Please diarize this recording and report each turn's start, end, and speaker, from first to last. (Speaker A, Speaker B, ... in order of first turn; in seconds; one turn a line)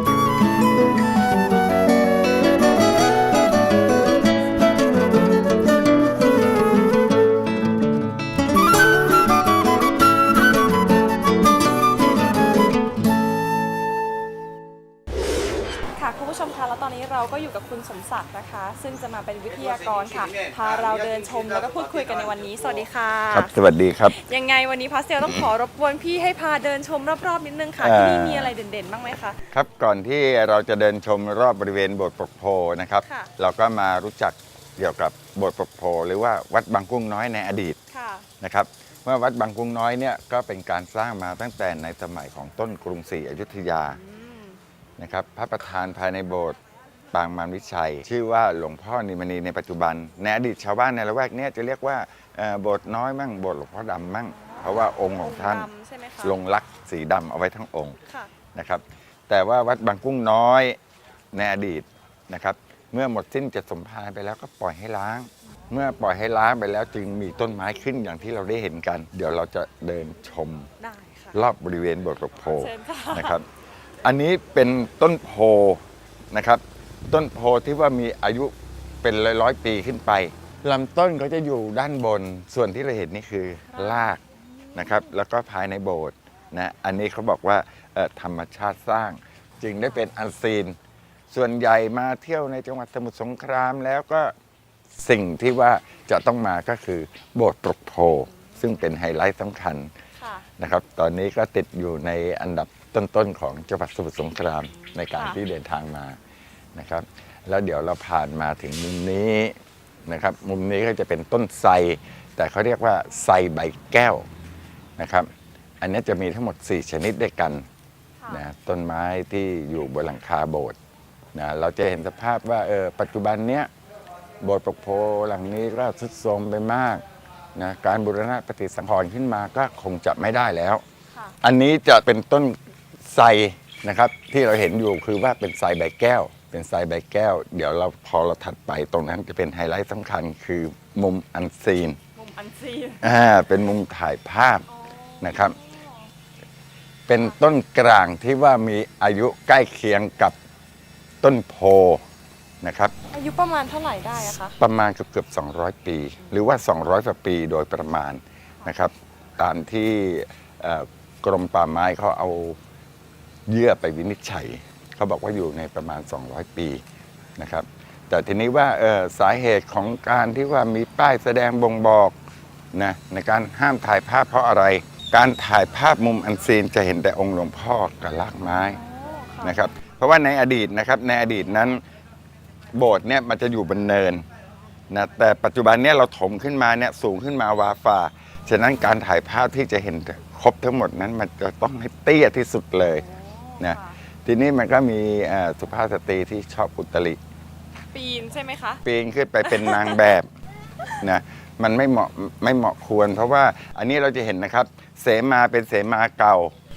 Speaker A: 15.9-23.6
Speaker B: 23.3-24.2
Speaker A: 24.1-29.4
Speaker B: 25.2-25.5
Speaker B: 27.8-28.5
Speaker B: 29.5-37.8
Speaker A: 33.0-33.3
Speaker A: 37.9-38.3
Speaker B: 38.4-44.0
Speaker A: 44.0-44.6
Speaker B: 45.0-46.6
Speaker B: 47.1-55.7
Speaker A: 54.3-56.4
Speaker B: 56.2-58.0
Speaker B: 58.5-60.8
Speaker B: 61.3-70.7
Speaker A: 70.8-71.4
Speaker B: 71.3-73.5
Speaker A: 72.5-73.4
Speaker B: 74.0-84.2
Speaker A: 83.7-84.2
Speaker B: 84.8-90.8
Speaker B: 91.3-94.3
Speaker B: 95.0-99.9
Speaker A: 98.3-98.8
Speaker A: 100.2-100.5
Speaker B: 100.6-106.2
Speaker A: 104.7-105.4
Speaker B: 106.8-114.3
Speaker B: 115.0-115.3
Speaker B: 115.8-117.7
Speaker B: 118.3-120.8
Speaker B: 121.3-123.7
Speaker B: 124.4-127.0
Speaker B: 127.6-130.8
Speaker B: 131.4-142.0
Speaker A: 142.2-143.0
Speaker B: 143.0-144.7
Speaker A: 144.7-146.1
Speaker B: 145.2-145.6
Speaker B: 147.1-150.4
Speaker B: 151.2-152.0
Speaker B: 152.6-152.9
Speaker A: 153.1-154.6
Speaker B: 154.6-162.6
Speaker B: 163.5-166.8
Speaker B: 167.4-172.2
Speaker B: 172.7-178.8
Speaker A: 178.6-179.7
Speaker B: 179.4-181.8
Speaker B: 182.7-184.2
Speaker B: 184.9-193.1
Speaker A: 193.0-194.0
Speaker B: 193.6-197.2
Speaker A: 197.8-198.8
Speaker B: 198.8-200.3
Speaker A: 199.4-200.1
Speaker B: 201.0-206.5